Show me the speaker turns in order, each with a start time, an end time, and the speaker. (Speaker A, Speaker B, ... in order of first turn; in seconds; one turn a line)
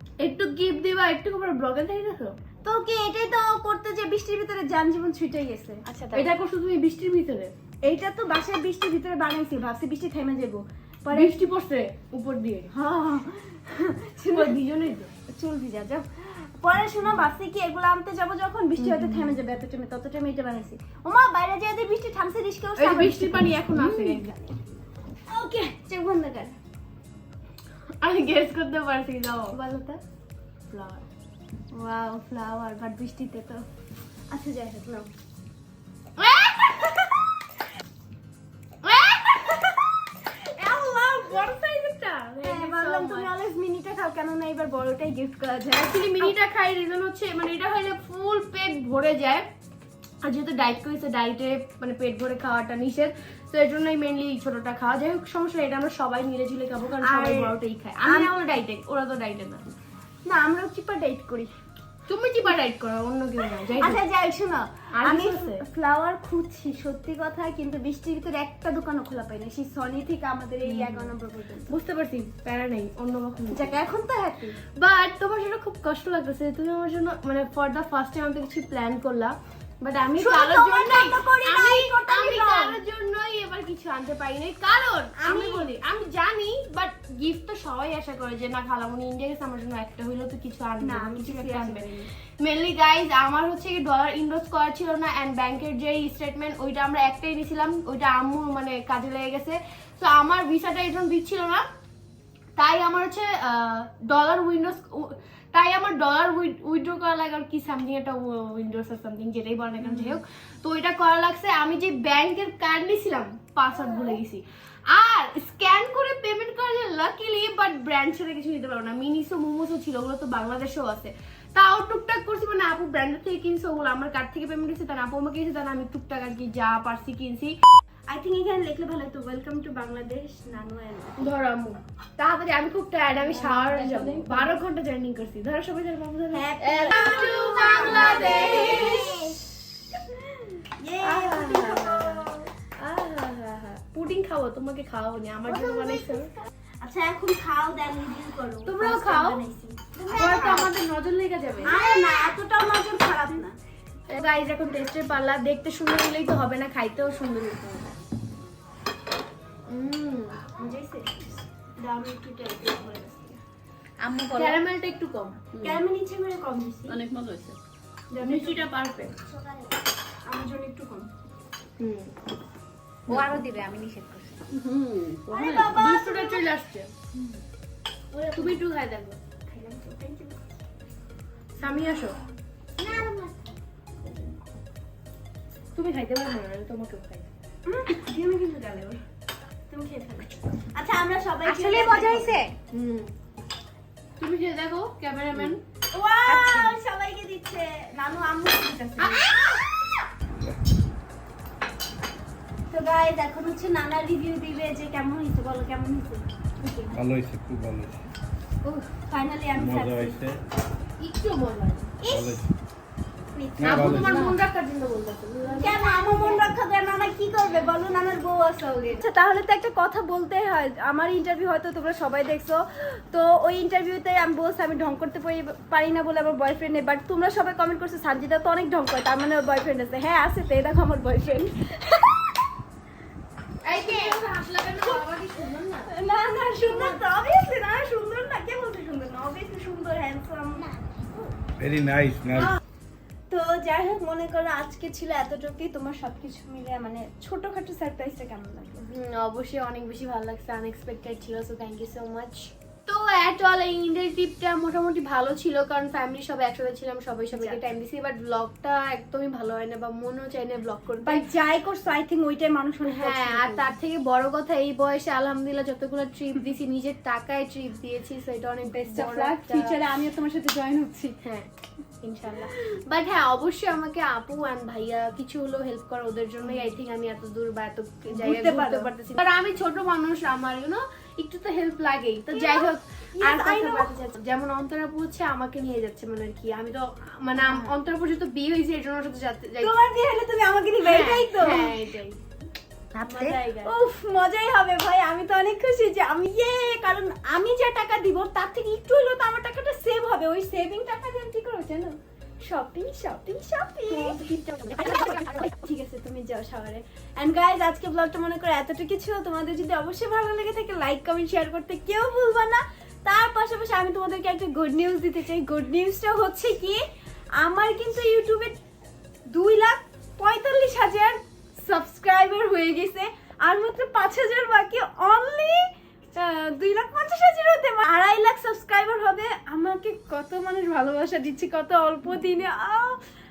Speaker A: 0.2-2.4
Speaker B: 2.6-5.8
Speaker C: 5.9-6.2
Speaker A: 6.1-7.5
Speaker B: 7.8-11.4
Speaker A: 11.1-12.7
Speaker B: 12.7-24.5
Speaker A: 14.3-15.1
Speaker A: 18.8-19.3
Speaker A: 22.8-24.3
Speaker B: 25.3-26.6
Speaker A: 28.0-29.6
Speaker B: 29.5-30.0
Speaker A: 30.7-31.0
Speaker B: 31.7-33.6
Speaker B: 34.3-35.1
Speaker A: 36.2-37.1
Speaker A: 38.8-39.8
Speaker A: 40.5-43.3
Speaker B: 42.4-46.4
Speaker A: 45.8-49.5
Speaker A: 50.2-59.6
Speaker B: 57.0-58.3
Speaker B: 60.2-61.5
Speaker A: 62.1-64.0
Speaker B: 63.8-71.7
Speaker A: 65.0-65.6
Speaker A: 70.7-71.1
Speaker A: 71.7-73.7
Speaker B: 73.5-74.6
Speaker A: 74.8-101.6
Speaker B: 80.2-82.8
Speaker B: 85.2-85.7
Speaker B: 90.8-92.1
Speaker A: 102.6-127.6
Speaker B: 109.8-110.2
Speaker B: 128.1-131.3
Speaker A: 131.2-139.2
Speaker B: 133.2-134.6
Speaker B: 136.3-139.3
Speaker B: 140.7-142.5
Speaker A: 141.0-146.3
Speaker B: 145.4-150.7
Speaker A: 148.7-149.4
Speaker A: 150.1-151.7
Speaker B: 151.6-153.6
Speaker A: 154.1-157.9
Speaker A: 159.7-160.4
Speaker B: 160.6-161.2
Speaker B: 161.8-163.4
Speaker C: 164.0-164.6
Speaker A: 164.3-165.4
Speaker B: 165.6-166.9
Speaker B: 168.1-169.6
Speaker A: 168.2-169.1
Speaker B: 170.2-171.1
Speaker A: 171.8-172.1
Speaker C: 173.1-174.4
Speaker B: 175.3-176.5
Speaker A: 175.7-176.9
Speaker B: 178.1-178.6
Speaker A: 178.3-179.2
Speaker B: 179.5-180.4
Speaker A: 181.6-182.2
Speaker B: 182.8-183.5
Speaker A: 185.8-187.3
Speaker B: 187.7-189.0
Speaker B: 189.7-192.4
Speaker C: 191.4-192.5
Speaker A: 192.7-193.1
Speaker A: 194.2-195.6
Speaker B: 195.9-199.4
Speaker C: 196.3-196.8
Speaker A: 199.0-199.3
Speaker B: 202.7-207.0
Speaker D: 206.9-208.0
Speaker B: 208.9-210.2
Speaker D: 209.5-210.4
Speaker A: 211.0-211.9
Speaker B: 212.0-212.4
Speaker D: 212.0-212.5
Speaker B: 213.3-214.2
Speaker D: 213.6-214.2
Speaker A: 213.6-216.3
Speaker C: 214.1-214.3
Speaker B: 215.5-232.2
Speaker A: 233.6-235.9
Speaker B: 233.8-234.2
Speaker B: 235.9-241.3
Speaker A: 236.5-237.0
Speaker D: 241.6-242.6
Speaker B: 242.3-242.6
Speaker B: 243.3-248.8
Speaker A: 248.8-261.3
Speaker B: 257.3-257.6
Speaker B: 261.0-263.7
Speaker A: 262.9-269.7
Speaker B: 268.7-271.2
Speaker A: 271.2-271.5
Speaker A: 272.0-289.7
Speaker B: 278.1-278.9
Speaker B: 282.3-283.9
Speaker B: 289.6-291.7
Speaker A: 290.8-292.2
Speaker C: 292.9-293.4
Speaker A: 293.0-293.7
Speaker B: 293.6-316.8
Speaker A: 303.9-304.5
Speaker B: 317.4-318.6
Speaker B: 319.3-333.0